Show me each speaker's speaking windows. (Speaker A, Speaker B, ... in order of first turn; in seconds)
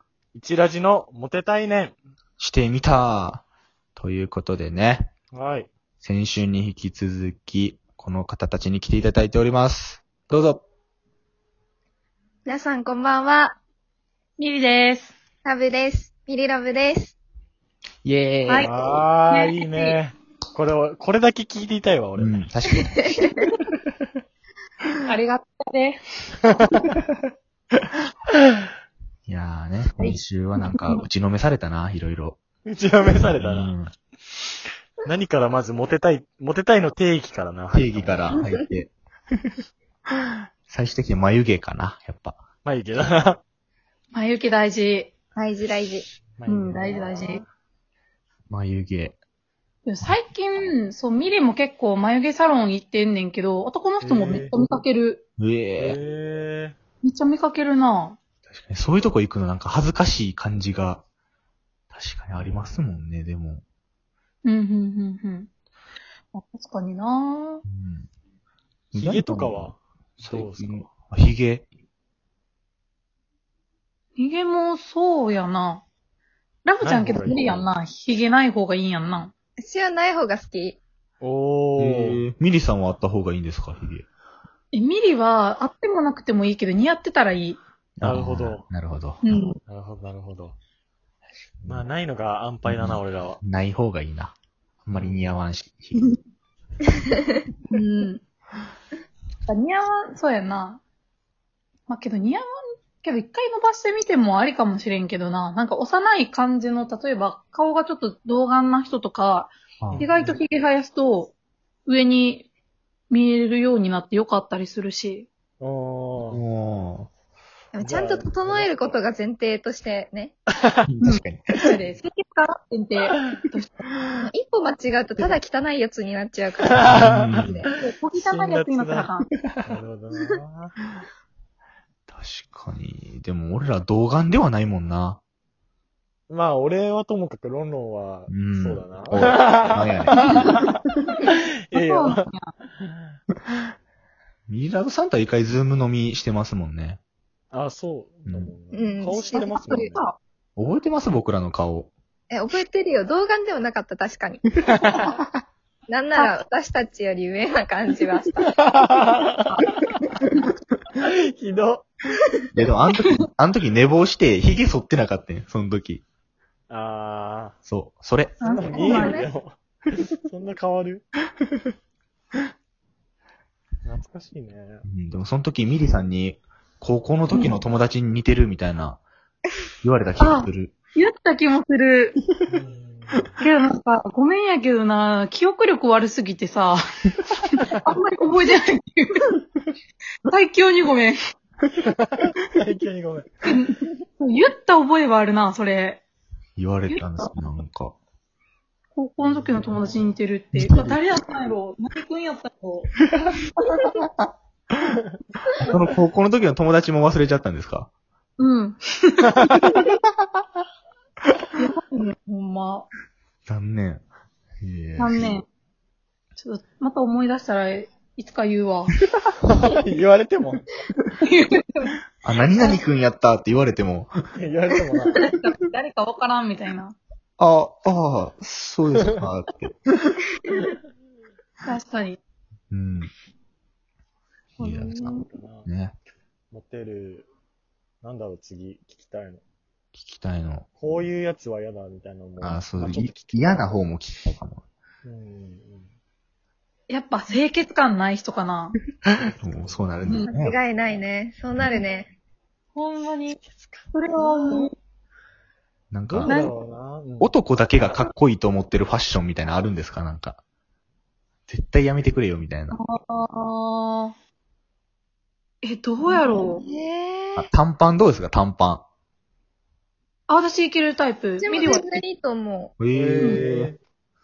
Speaker A: 0.3-2.0, 5.3-5.7, 18.6-22.4, 32.7-33.8, 35.0-38.4, 42.6-43.4, 46.4-47.5, 54.0-54.5, 55.8-56.8, 62.4-62.9, 69.0-70.9, 76.8-77.6, 81.2-82.2, 88.0-88.7, 89.7-90.6, 91.7-93.4, 94.9-95.4, 109.9-110.4, 115.6-116.4, 117.8-118.8, 126.7-127.4, 128.2-129.1, 129.6-130.8, 136.3-140.5, 141.3-142.3, 142.8-143.2, 147.5-150.1, 158.7-159.8, 161.0-161.9, 166.7-167.6, 168.4-171.1, 173.8-174.8, 182.5-183.3, 191.8-193.3, 199.2-200.2, 219.4-220.8, 224.4-225.2, 235.3-235.7, 236.5-237.3, 238.0-239.4, 240.8-243.7, 245.0-245.9, 249.2-249.8, 253.5-253.9, 256.1-257.3, 272.9-273.8
Speaker B: 2.4-3.4, 4.0-5.1, 6.0-10.6, 18.0-19.1, 22.2-23.2, 29.3-32.4, 33.4-33.9, 37.7-38.9, 40.7-42.4, 48.5-49.2, 55.4-56.0, 58.5-61.0, 61.9-63.6, 67.7-68.1, 68.9-71.7, 81.8-84.1, 88.0-89.3, 92.7-96.1, 109.8-110.1, 116.3-117.1, 120.8-121.8, 126.9-127.6, 132.1-135.2, 138.3-140.3, 144.5-147.0, 150.6-151.9, 162.5-166.0, 167.7-168.4, 174.9-179.0, 179.8-180.7, 196.6-198.0, 200.5-201.0, 205.6-207.9, 213.5-214.1, 214.6-215.4, 222.2-224.1, 227.4-229.8, 232.7-233.1, 234.6-236.0, 239.9-240.7, 242.4-244.6, 249.4-250.6, 255.9-256.3, 257.2-260.4, 261.5-262.8, 267.4-268.8, 272.8-273.7
Speaker C: 12.5-13.6, 15.4-17.2, 38.3-38.6, 45.4-46.1, 79.6-80.8, 117.7-120.3, 124.2-127.7, 148.7-149.9, 152.3-154.4, 155.9-158.5, 168.7-169.3, 250.3-252.1, 266.1-267.5, 271.4-272.7
Speaker D: 14.4-15.1, 19.3-20.0, 25.1-26.0, 44.1-45.1, 46.5-47.4, 49.9-55.2, 57.0-58.2, 64.4-65.5, 66.3-67.6, 74.2-75.8, 76.7-79.3, 84.7-87.6, 89.2-89.6, 97.7-98.2, 99.5-100.8, 101.9-102.5, 103.0-111.3, 111.9-112.5, 113.1-115.3, 121.0-123.9, 127.8-129.3, 140.2-140.6, 141.7-142.5, 149.3-150.2, 160.2-160.5, 168.4-169.2, 180.2-182.2, 183.4-186.8, 187.5-189.4, 190.3-191.2, 193.4-196.0, 196.9-197.3, 198.9-202.9, 203.6-204.1, 208.4-209.5, 211.6-212.9, 215.0-215.5, 216.4-219.0, 221.2-222.0, 225.1-227.0, 231.7-232.2, 234.6-235.3, 246.9-248.8, 252.8-253.4, 253.9-254.7, 256.3-256.5, 262.7-264.1, 265.6-266.6, 270.3-272.0